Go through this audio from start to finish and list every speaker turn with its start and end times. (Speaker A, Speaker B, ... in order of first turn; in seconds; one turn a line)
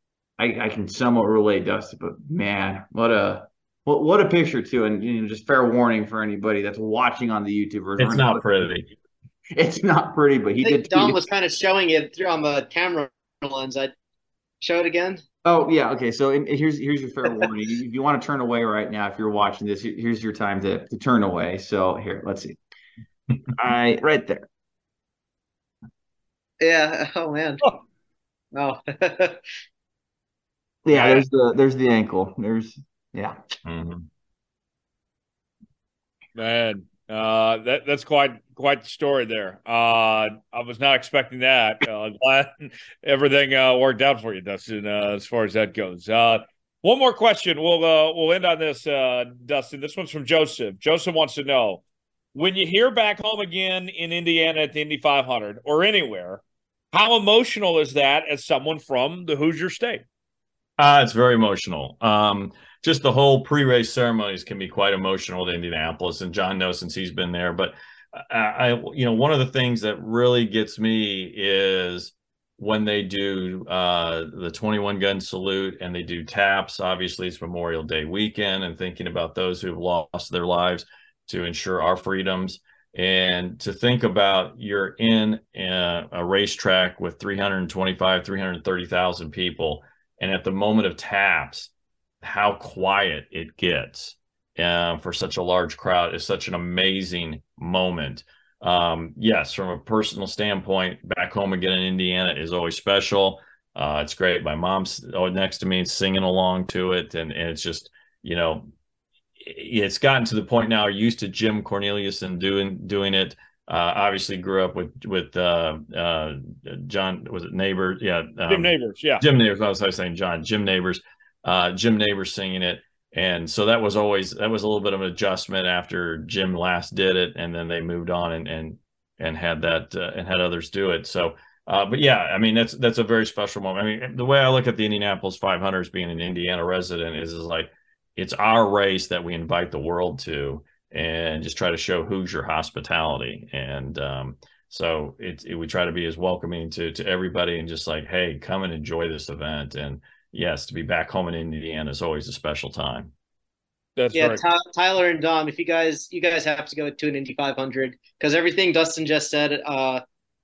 Speaker A: 0.4-8.4
Speaker B: 8.0-8.9
Speaker A: 9.5-11.2
Speaker C: 10.6-13.9
Speaker C: 14.6-15.2
Speaker A: 15.4-22.6
Speaker A: 23.5-24.5
Speaker C: 26.6-27.8
Speaker C: 28.5-29.4
Speaker A: 30.8-33.4
Speaker D: 30.9-31.2
Speaker B: 33.6-34.1
Speaker D: 36.4-51.8
Speaker D: 52.3-56.4
Speaker D: 56.9-60.0
Speaker B: 60.8-91.7
Speaker B: 92.2-108.7
Speaker B: 109.4-153.1
Speaker D: 118.5-119.2
Speaker D: 154.0-154.4
Speaker C: 154.1-160.0